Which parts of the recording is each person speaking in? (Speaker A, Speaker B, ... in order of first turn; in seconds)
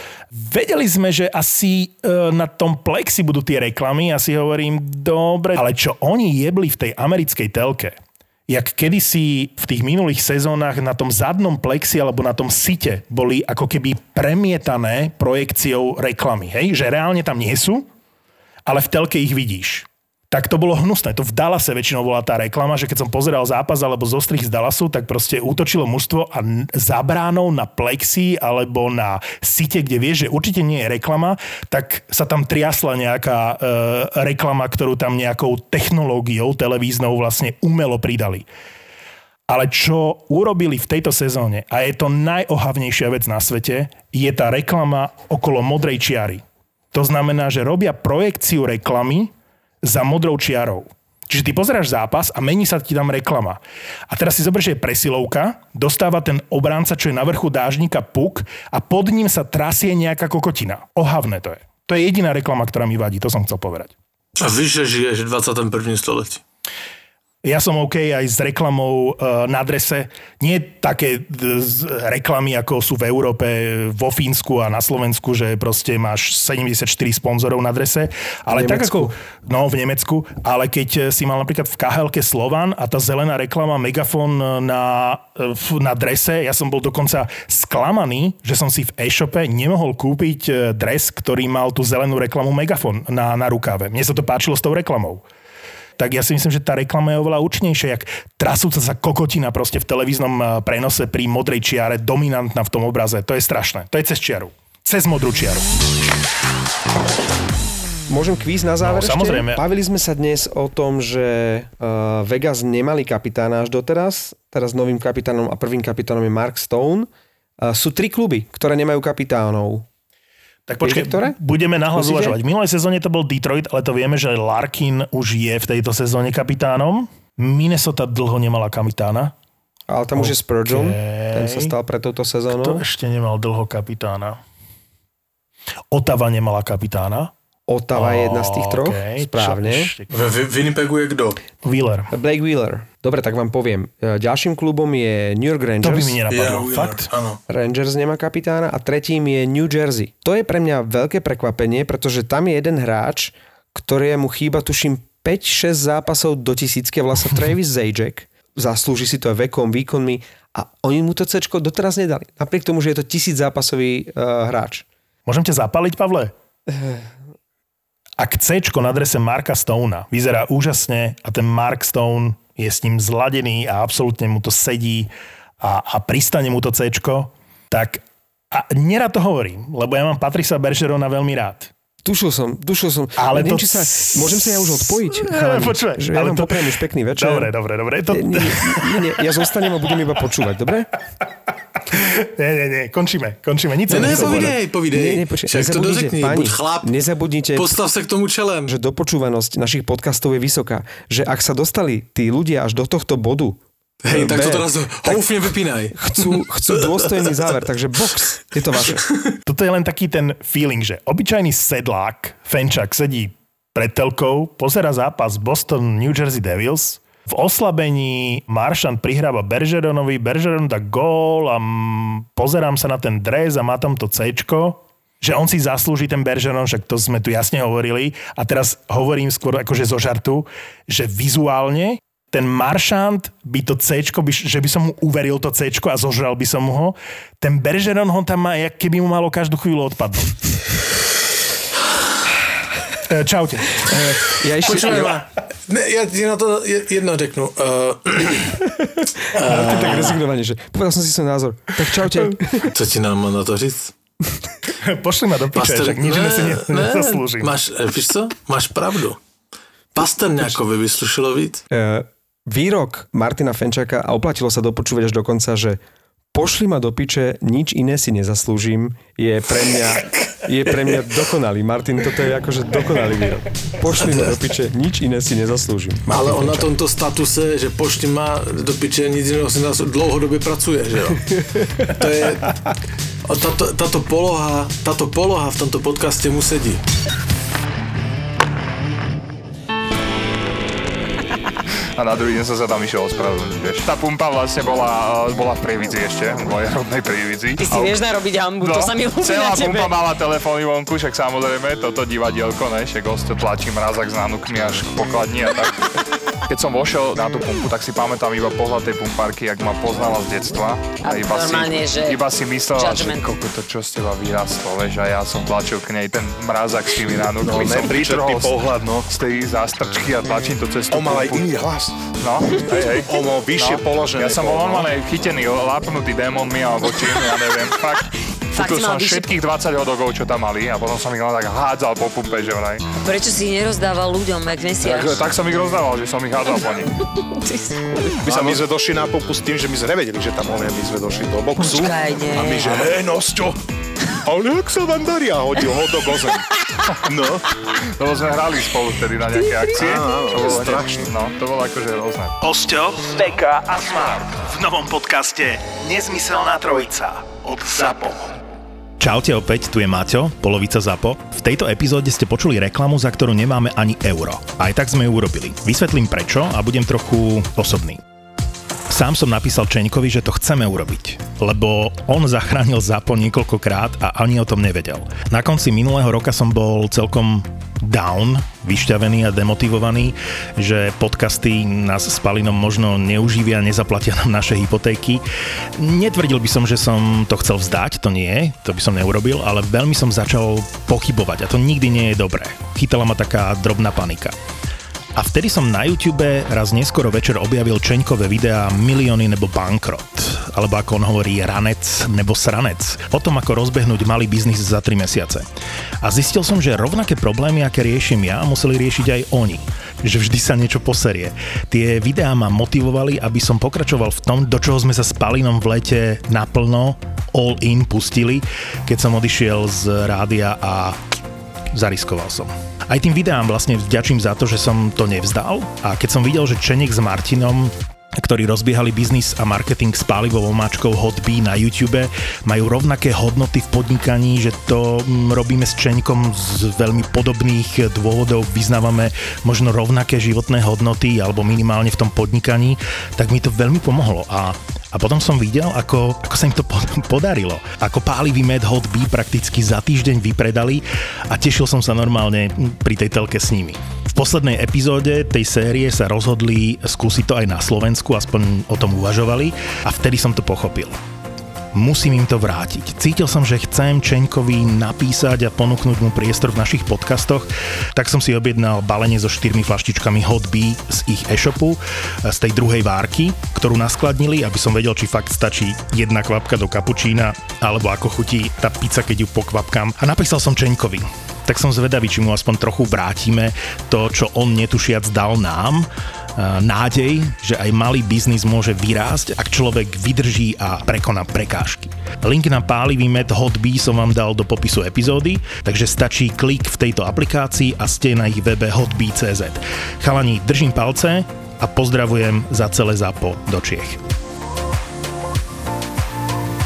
Speaker A: 0.3-8.0, 8.5-17.9, 18.7-38.5, 39.5-46.4, 46.9-49.3, 49.8-63.9, 67.4-95.2, 96.0-105.7, 108.8-109.6, 120.7-129.3, 130.2-131.7, 132.5-134.4, 135.9-137.3, 137.9-140.1, 141.6-142.1, 145.8-147.1, 165.3-166.3, 168.2-175.1, 175.6-181.7, 183.2-189.1, 191.9-194.6, 209.5-240.4, 243.1-243.9, 254.7-257.5, 352.4-358.3, 359.0-368.0, 368.9-385.2, 385.8-394.4, 395.1-405.5, 406.0-421.0, 421.7-461.0, 461.7-504.0
Speaker B: 64.4-66.4, 140.1-141.4, 146.3-147.4, 193.9-196.9, 197.6-198.7, 204.0-206.4, 244.6-248.6, 249.3-250.2, 252.5-253.9, 255.5-259.2, 259.9-261.6, 274.0-274.3, 276.1-282.6, 283.2-286.8
Speaker C: 78.5-79.1, 108.1-117.1, 117.6-119.9, 120.8-121.4, 121.9-122.4, 129.9-132.8, 137.7-139.9, 142.1-146.2, 147.5-164.8, 166.7-167.1, 182.0-187.5, 188.0-190.9, 193.9-197.8, 198.7-205.3, 205.9-209.1, 243.8-245.2, 248.7-252.7, 261.7-265.8, 266.3-276.7
Speaker D: 292.0-298.0, 298.6-305.9, 306.5-321.6, 322.2-332.9, 334.8-336.9, 338.3-338.7, 347.8-352.4
Speaker E: 297.6-299.9, 311.0-312.2, 312.7-313.2, 328.5-329.4, 333.0-335.3, 337.0-338.2, 341.6-342.9, 349.4-350.2
Speaker F: 317.4-318.7, 320.9-324.9, 338.2-343.6, 344.2-346.4, 347.0-347.4, 349.7-351.1